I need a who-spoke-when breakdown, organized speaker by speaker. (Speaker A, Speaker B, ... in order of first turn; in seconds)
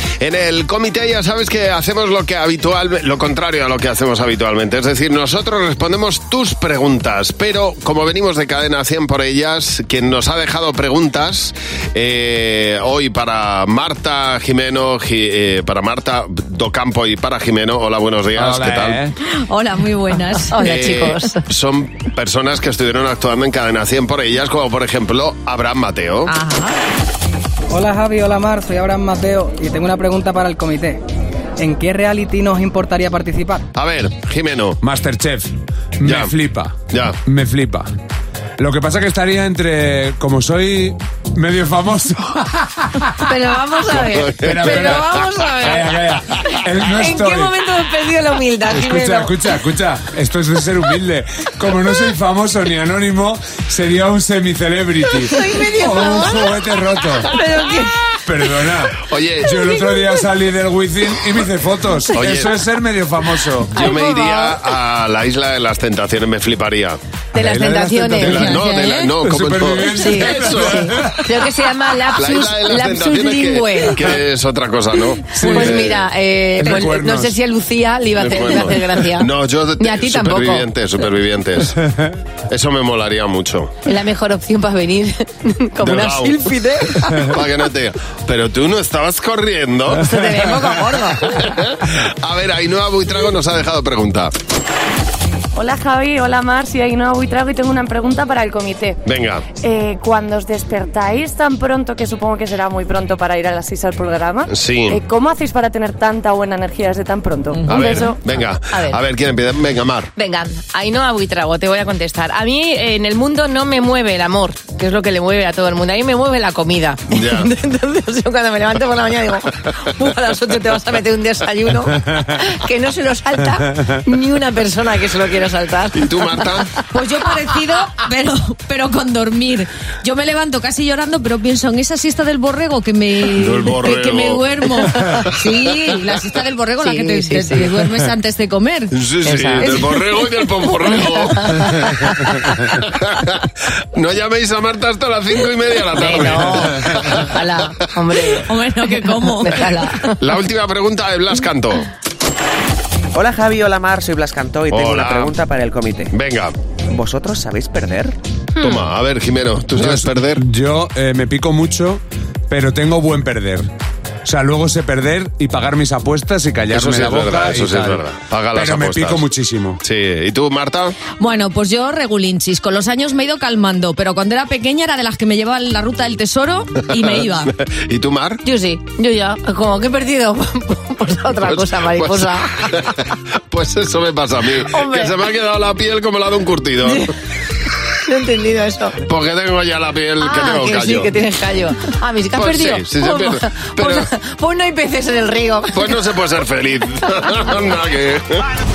Speaker A: 0.2-19.0, 20.6-26.3, 33.7-34.8, 36.0-36.3, 36.9-37.2, 43.9-45.1, 59.1-59.6, 62.1-62.5, 63.7-67.0, 68.2-71.0, 72.1-76.0, 78.2-81.7, 82.5-83.7, 85.8-86.5, 87.2-90.1, 91.3-94.3, 99.0-99.4, 104.5-105.0, 107.7-110.1, 117.1-117.5, 125.9-126.8, 133.3-134.6, 135.3-135.9, 138.9-141.7, 142.8-147.4, 150.2-151.9, 154.7-155.3, 156.1-156.5, 158.6-160.4, 166.7-169.2, 169.8-170.9, 176.8-178.4, 181.4-187.1, 189.0-191.1, 192.3-194.1, 195.7-198.4
Speaker B: 18.4-19.1, 34.8-37.9, 38.6-43.1, 44.4-47.5, 48.7-57.3, 58.3-63.9, 67.3-71.2, 75.3-76.0, 76.6-77.3, 159.7-163.7, 164.2-168.0, 168.5-169.8
Speaker C: 19.2-20.6, 26.3-26.8, 68.7-69.0, 126.9-138.9, 148.5-149.7, 171.1-177.5
Speaker D: 20.5-21.4, 43.2-45.9, 46.9-49.3, 55.3-56.5, 57.3-58.0, 63.7-64.5, 67.3-68.6, 69.9-74.1, 75.4-80.7, 83.8-87.3, 90.0-91.5, 107.7-108.1, 108.7-109.0, 110.2-127.9, 135.4-135.8, 136.8-137.7, 139.2-140.0, 140.8-142.3, 145.9-150.1, 178.4-182.9, 184.7-185.1, 188.0-189.0, 190.2-196.0
Speaker E: 27.7-31.0, 31.6-33.6
Speaker F: 95.5-99.0, 99.6-108.1
Speaker G: 153.1-156.1, 156.9-158.1